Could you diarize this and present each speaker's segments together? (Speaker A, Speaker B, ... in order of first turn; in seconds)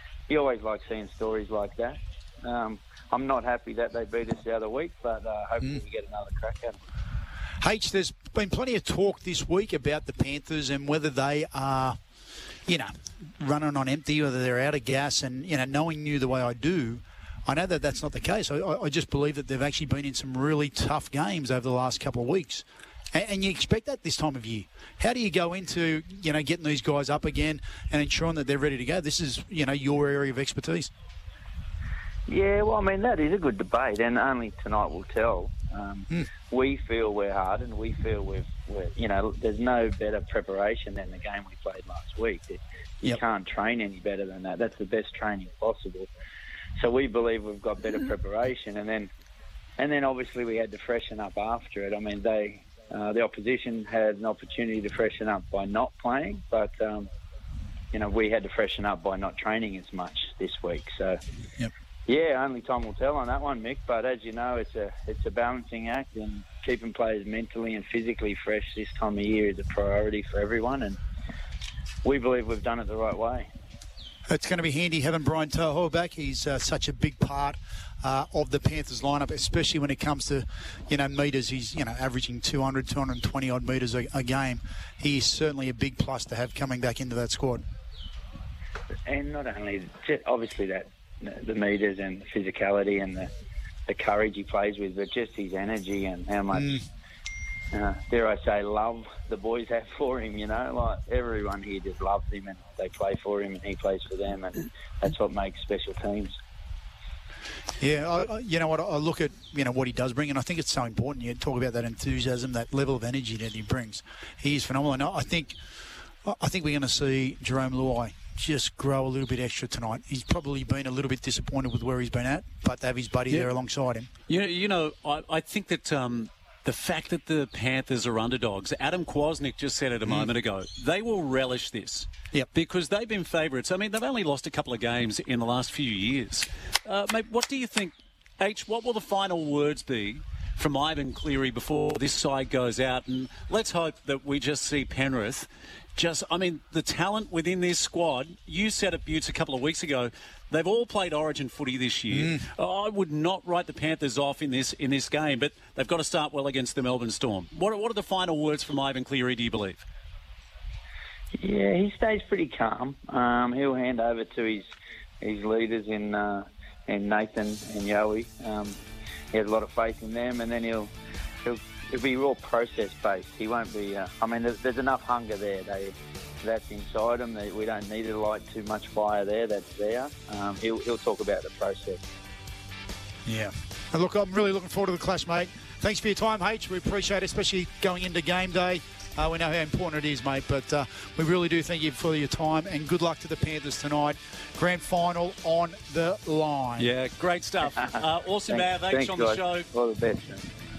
Speaker A: 0.3-6.8, 32.3-46.1, 46.8-49.1, 49.8-57.1, 57.9-61.2, 62.1-71.0, 72.0-73.5, 89.1-93.3, 93.9-96.8, 97.7-106.4, 161.3-164.7, 165.2-168.8, 169.3-170.9, 171.4-182.0, 198.5-200.5
Speaker B: 7.6-12.0, 12.7-30.9, 74.3-87.6, 96.5-96.8, 107.8-115.6, 116.2-124.1, 152.1-152.4, 183.2-196.9
Speaker C: 124.3-159.8, 196.8-199.7